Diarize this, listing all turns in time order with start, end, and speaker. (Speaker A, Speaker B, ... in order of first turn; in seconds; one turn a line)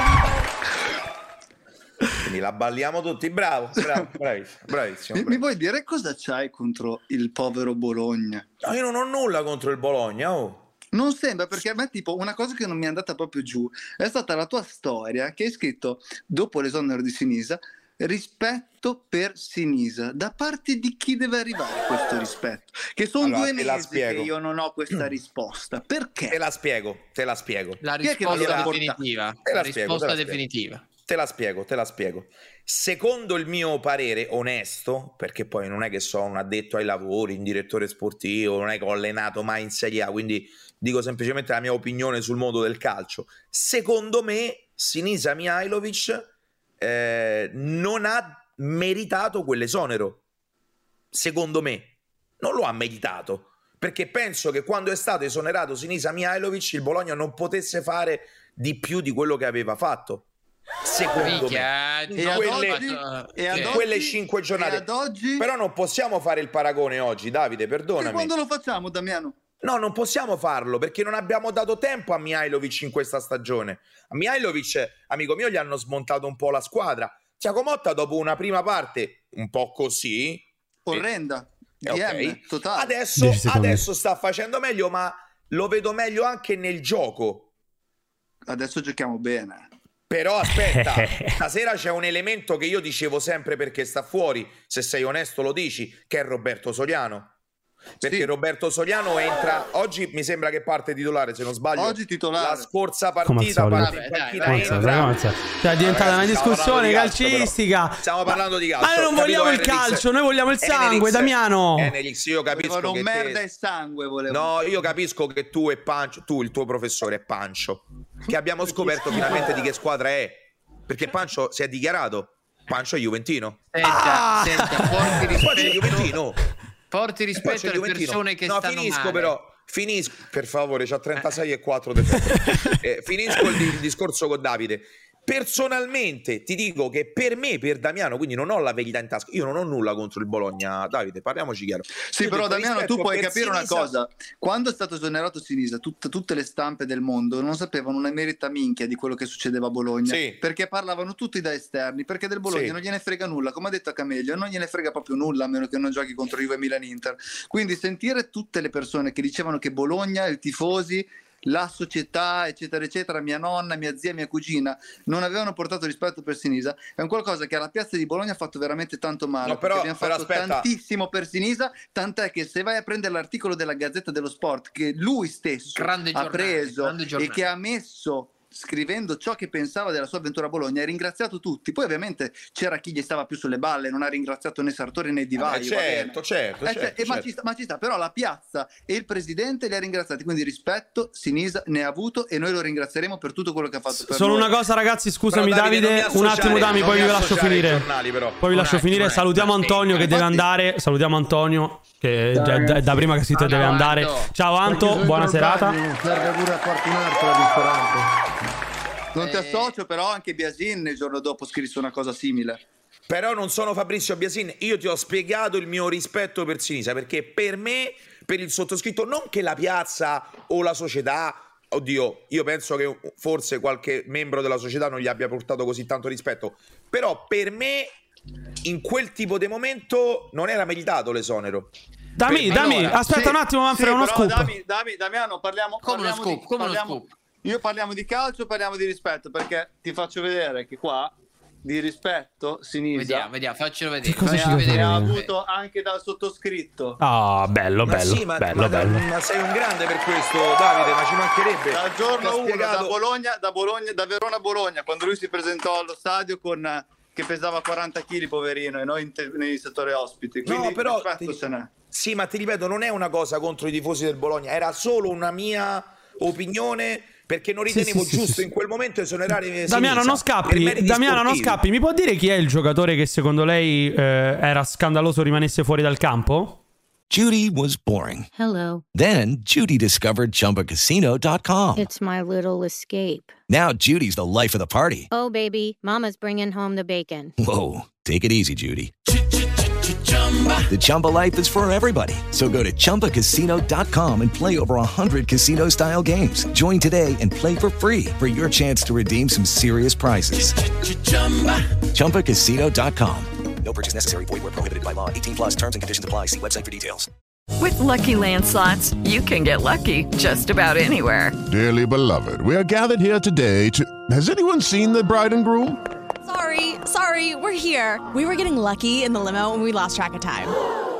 Speaker A: 2.2-5.5
Speaker B: 5.1-8.5
Speaker A: 8.6-10.7
Speaker B: 10.9-26.4
Speaker A: 23.2-24.3
Speaker A: 26.3-28.8
Speaker C: 27.8-30.8
Speaker B: 28.0-29.0
Speaker A: 29.4-30.4
Speaker A: 31.0-46.3
Speaker A: 46.8-50.2
Speaker A: 51.1-60.2
Speaker A: 60.8-62.9
Speaker C: 61.1-63.8
Speaker B: 62.1-65.5
Speaker A: 63.5-68.3
Speaker B: 68.0-69.4
Speaker A: 69.6-81.1
Speaker B: 80.8-82.9
Speaker A: 81.8-87.5
Speaker D: 83.1-83.9
Speaker B: 88.5-89.7
Speaker A: 90.1-97.3
Speaker D: 90.4-91.4
Speaker A: 98.0-110.0
Speaker B: 98.0-98.3
Speaker B: 101.8-102.7
Speaker D: 103.2-111.9
Speaker C: 103.8-105.0
Speaker A: 110.6-113.4
Speaker B: 112.5-114.6
Speaker A: 114.3-123.7
Speaker C: 123.7-126.1
Speaker D: 123.8-125.7
Speaker A: 125.3-126.4
Speaker C: 126.9-129.4
Speaker A: 127.3-144.0
Speaker D: 132.1-132.8
Speaker D: 133.3-133.6
Speaker B: 141.9-194.5
Speaker A: 150.0-150.4
Speaker A: 152.4-152.8
Speaker A: 169.4-170.7
Speaker C: 175.7-177.4
Speaker A: 185.4-187.3
Speaker D: 193.9-197.9
Speaker A: 195.3-198.4
Speaker D: 198.4-205.8
Speaker C: 198.5-200.1
Speaker C: 203.3-204.3
Speaker E: 204.6-208.2
Speaker B: 209.1-212.6
Speaker C: 209.2-209.7
Speaker A: 213.1-227.9
Speaker A: 228.6-231.7
Speaker D: 232.2-234.5
Speaker C: 232.4-232.9
Speaker B: 232.4-243.3
Speaker C: 235.8-237.1
Speaker C: 242.9-245.3
Speaker D: 244.0-245.1
Speaker B: 244.3-247.0
Speaker D: 247.0-249.1
Speaker A: 247.8-253.0
Speaker B: 251.7-261.7
Speaker A: 260.4-271.6
Speaker D: 267.7-268.5
Speaker D: 269.6-276.6
Speaker F: 277.1-278.3
Speaker G: 278.4-278.8
Speaker F: 278.9-281.9
Speaker G: 281.8-283.3
Speaker F: 283.5-285.1
Speaker G: 285.1-287.3
Speaker F: 287.4-288.9
Speaker F: 290.7-300.6
Speaker F: 301.9-307.1
Speaker H: 307.6-311.4
Speaker I: 311.4-315.8
Speaker J: 316.2-320.5